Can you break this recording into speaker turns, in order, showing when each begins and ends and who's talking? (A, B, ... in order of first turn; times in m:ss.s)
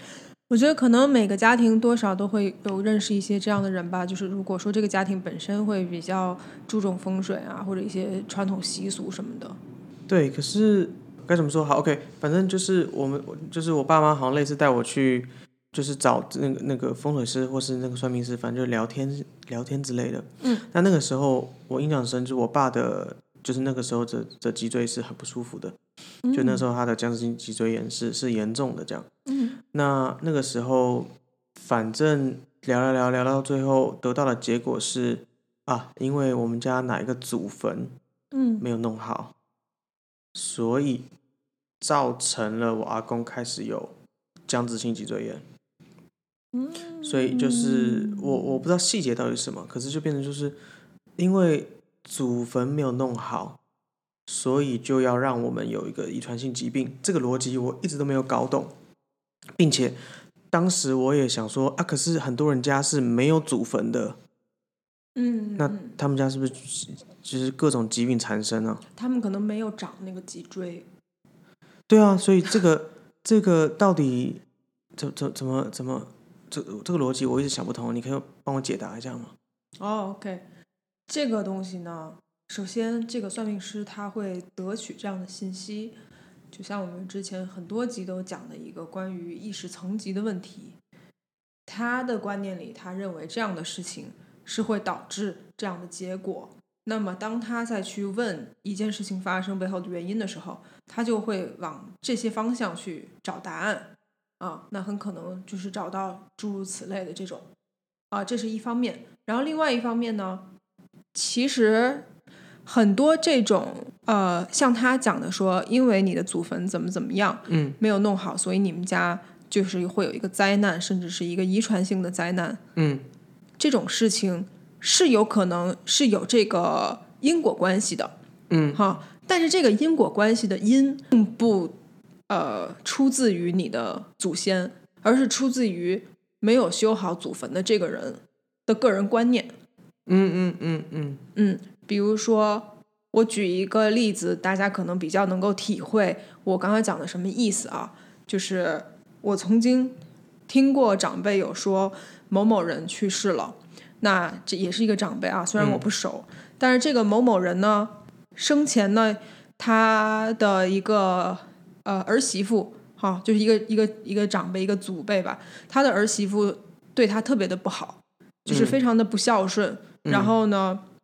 0:00.5-0:09.6 A
0:10.1-0:25.8 B
0:26.2-0:26.6 A
0:26.3-0:29.1 B
0:29.3-0:29.6 A
0:29.7-0:37.9 B
0:38.3-0:38.6 A
0:38.6-0:39.3 B
0:40.3-0:41.1 B
0:41.8-0:43.9 B
0:44.5-0:45.4 B
0:46.5-0:48.6 A
0:47.0-0:50.6 B
0:51.2-0:53.6 B
0:54.3-0:58.7 B
0:59.6-1:00.0 B
1:00.5-1:04.2 B
1:05.2-1:06.0 A
1:05.6-1:08.8 B
1:08.9-1:10.8 A
1:11.9-1:14.4 B
1:15.0-1:19.3 B
1:19.8-1:20.4 A
1:21.1-1:25.9 A
1:26.5-1:30.8 A
1:31.7-1:47.4 A
1:48.1-1:50.4 A
1:51.1-1:52.0 A
1:52.6-2:02.6 A
1:57.5-1:57.8 B
2:02.8-2:03.0 B
2:03.6-2:08.1 A
2:08.5-2:08.8 B
2:08.7-2:11.7 A
2:12.3-2:19.5 A
2:20.1-2:21.2 B
2:21.4-2:29.9 A
2:30.5-2:50.8 A
2:35.6-2:35.8 B
2:48.5-2:48.8 B
2:50.0-2:50.3 B